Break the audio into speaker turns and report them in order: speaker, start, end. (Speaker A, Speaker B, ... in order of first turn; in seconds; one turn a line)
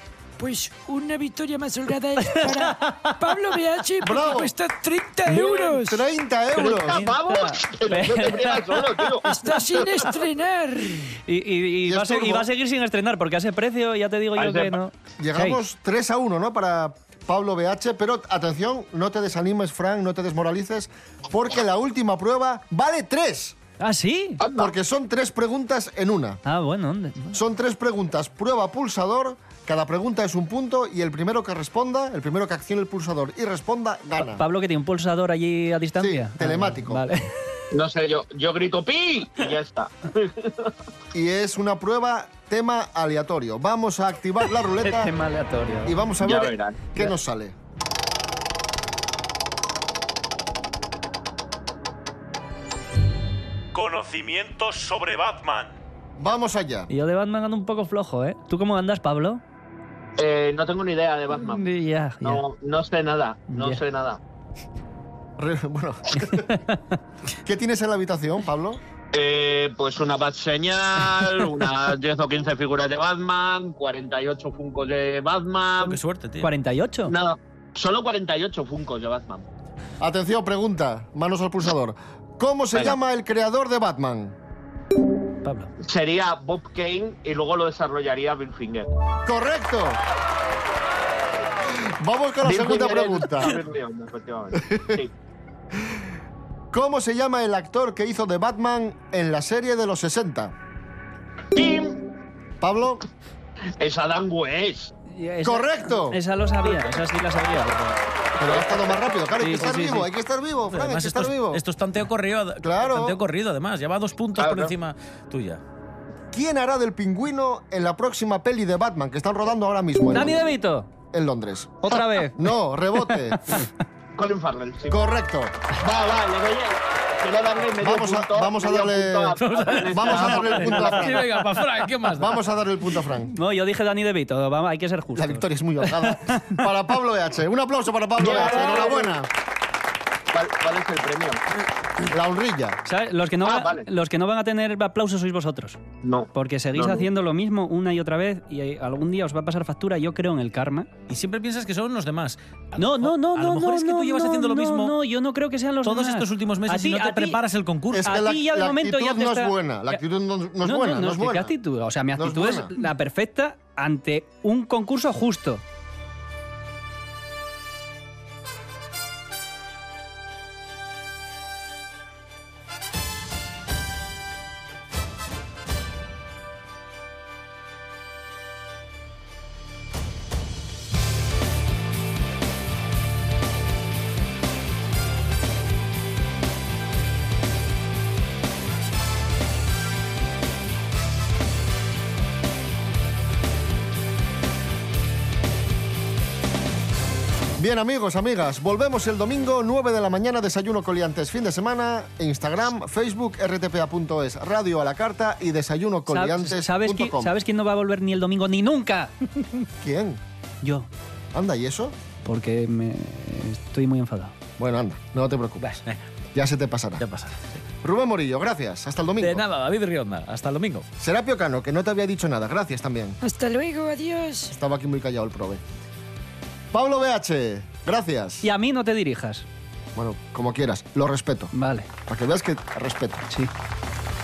Speaker A: 0.4-6.0
Speaker B: 2.2-3.1
Speaker C: 4.0-4.5
Speaker D: 5.3-5.8
Speaker C: 5.8-7.1
Speaker B: 6.5-9.2
Speaker D: 6.7-10.1
Speaker A: 9.2-11.0
Speaker B: 11.2-15.6
Speaker C: 11.9-12.5
Speaker D: 14.4-14.8
Speaker C: 15.2-23.6
Speaker B: 23.8-24.4
Speaker D: 24.4-24.7
Speaker C: 24.5-26.4
Speaker B: 26.4-27.4
Speaker C: 27.3-34.5
Speaker B: 34.2-37.2
Speaker C: 36.0-37.0
Speaker D: 37.7-40.7
Speaker C: 41.1-45.1
Speaker B: 44.8-46.0
Speaker C: 45.9-47.5
Speaker D: 46.2-46.8
Speaker E: 53.7-55.8
Speaker C: 56.2-56.9
Speaker B: 56.9-59.4
Speaker D: 60.2-61.6
Speaker B: 61.3-62.4
Speaker D: 62.2-64.2
Speaker B: 63.5-63.8
Speaker C: 65.4-66.5
Speaker C: 67.5-68.8
Speaker D: 69.1-76.0
Speaker E: 75.8-76.5
Speaker B: 76.4-77.1
Speaker D: 77.1-79.5
Speaker C: 80.0-84.4
Speaker B: 85.5-85.7
Speaker D: 85.8-88.9
Speaker C: 89.3-90.0
Speaker C: 91.8-93.6
Speaker D: 92.4-95.1
Speaker C: 94.5-95.0
Speaker C: 96.7-100.5
Speaker D: 101.5-102.0
Speaker C: 102.6-103.0
Speaker D: 103.8-104.9
Speaker B: 105.1-108.0
Speaker C: 105.4-106.2
Speaker D: 106.7-107.0
Speaker D: 108.4-108.9
Speaker C: 108.4-111.6
Speaker B: 109.4-110.1
Speaker E: 110.7-115.6
Speaker C: 112.6-113.2
Speaker D: 114.4-114.7
Speaker C: 116.3-120.4
Speaker B: 120.1-120.9
Speaker C: 121.1-123.6
Speaker B: 121.8-122.5
Speaker B: 123.0-123.7
Speaker D: 124.2-125.0
Speaker C: 124.9-125.8
Speaker D: 125.8-131.2
Speaker C: 127.3-131.3
Speaker E: 129.4-132.5
Speaker C: 132.1-133.3
Speaker B: 133.3-136.6
Speaker C: 135.2-139.3
Speaker D: 138.2-139.2
Speaker D: 140.3-141.4
Speaker C: 142.1-142.8
Speaker B: 142.9-145.8
Speaker D: 143.4-143.9
Speaker D: 146.0-147.1
Speaker B: 146.3-150.9
Speaker E: 151.1-155.0
Speaker B: 152.8-157.4
Speaker E: 155.8-158.1
Speaker C: 157.9-161.5
Speaker B: 158.0-160.0
Speaker B: 160.6-165.6
Speaker C: 162.2-162.7
Speaker C: 197.6-207.3
Speaker B: 206.1-209.1
Speaker C: 209.8-210.2
Speaker B: 210.6-210.9
Speaker C: 211.3-211.9
Speaker B: 212.2-214.3
Speaker C: 214.6-215.8
Speaker E: 215.6-216.0
Speaker C: 216.3-217.1
Speaker E: 217.0-217.4
Speaker C: 217.8-219.4
Speaker E: 219.2-220.9
Speaker C: 221.0-223.2
Speaker A: 223.2-224.5
Speaker C: 224.5-225.6
Speaker C: 226.7-228.5
Speaker B: 228.4-229.5
Speaker C: 229.9-231.5
Speaker B: 231.5-231.9
Speaker C: 232.1-233.3